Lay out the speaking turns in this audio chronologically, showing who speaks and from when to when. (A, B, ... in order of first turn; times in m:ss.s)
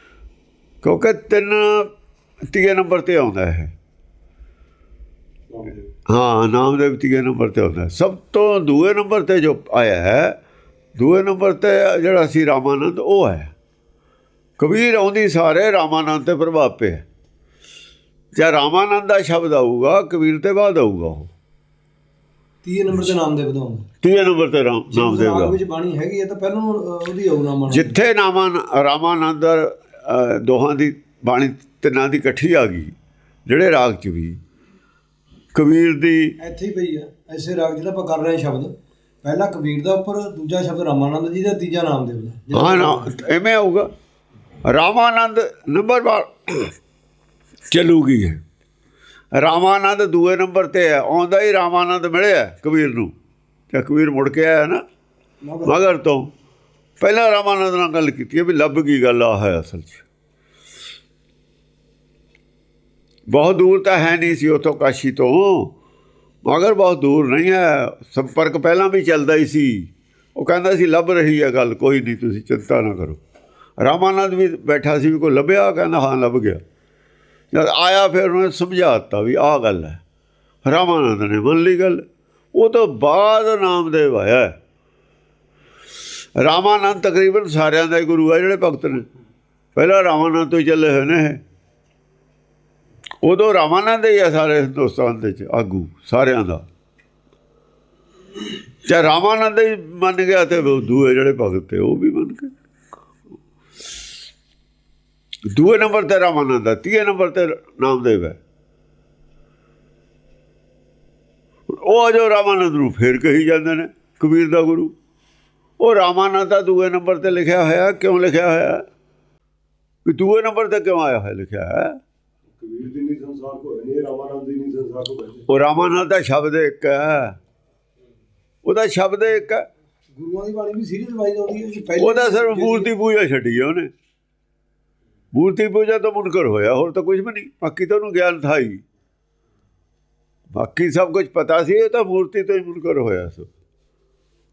0:00.8-0:01.9 A
0:02.5-0:03.7 A
0:05.5-0:05.8 B
0:06.1-0:10.4 A
0:11.0-0:13.5 A
0:14.6-0:17.0 A
0:18.3-0:21.3 A
0:22.6-0:23.9 C
0:24.0-0:25.6 A
0:24.9-0:28.0 C
0:27.7-0:32.9 A
0:33.5-0:34.4 A
0:35.5-0:36.4 A
0:36.4-0:43.1 C
0:42.5-0:43.9 A
0:44.6-0:46.7 A
0:47.7-0:48.4 A
0:49.3-0:53.1 A
0:53.7-0:54.8 A
0:55.4-0:55.9 C
0:55.6-0:56.3 A
0:57.0-1:00.0 A
1:03.3-1:05.7 A
1:06.5-1:13.2 A
1:13.8-1:16.6 A
1:17.5-1:20.0 A
1:20.6-1:24.6 A
1:26.4-1:29.1 A
1:29.8-1:31.4 A
1:33.2-1:36.6 A
1:38.8-1:42.5 A
1:45.5-1:48.4 A
1:51.7-1:54.9 A
1:55.8-1:58.9 A
2:00.0-2:02.0 A
2:02.6-2:05.5 B
2:05.5-2:07.4 A
2:08.6-2:09.7 A
2:10.2-2:12.9 C
2:12.0-2:13.9 A
2:15.3-2:18.8 A
2:20.5-2:23.5 A